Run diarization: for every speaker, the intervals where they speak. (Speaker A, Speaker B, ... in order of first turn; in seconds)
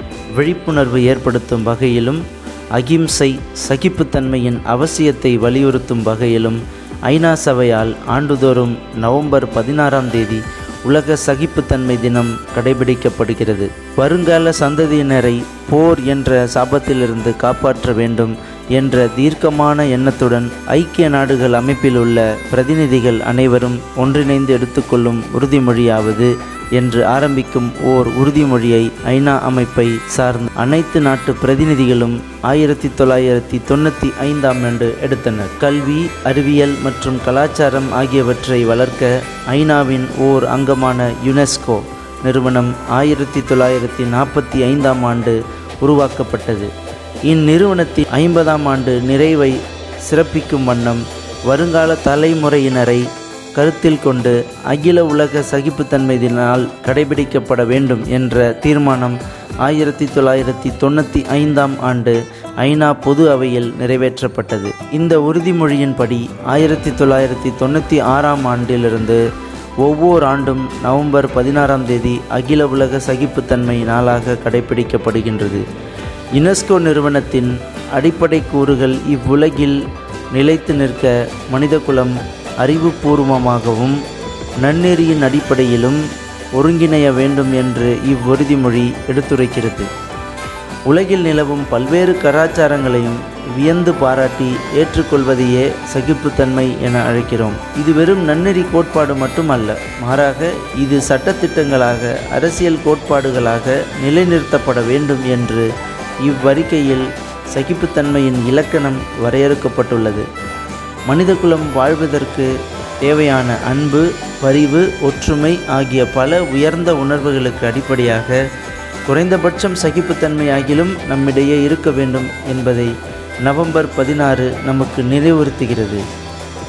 Speaker A: 0.4-2.2, 2.8-46.7, 47.3-69.2, 69.8-75.6, 76.4-79.8, 80.3-84.0, 84.6-86.0, 86.6-89.9, 90.9-105.7, 106.2-110.3, 111.1-112.5, 113.0-118.4, 119.1-122.9, 123.5-126.0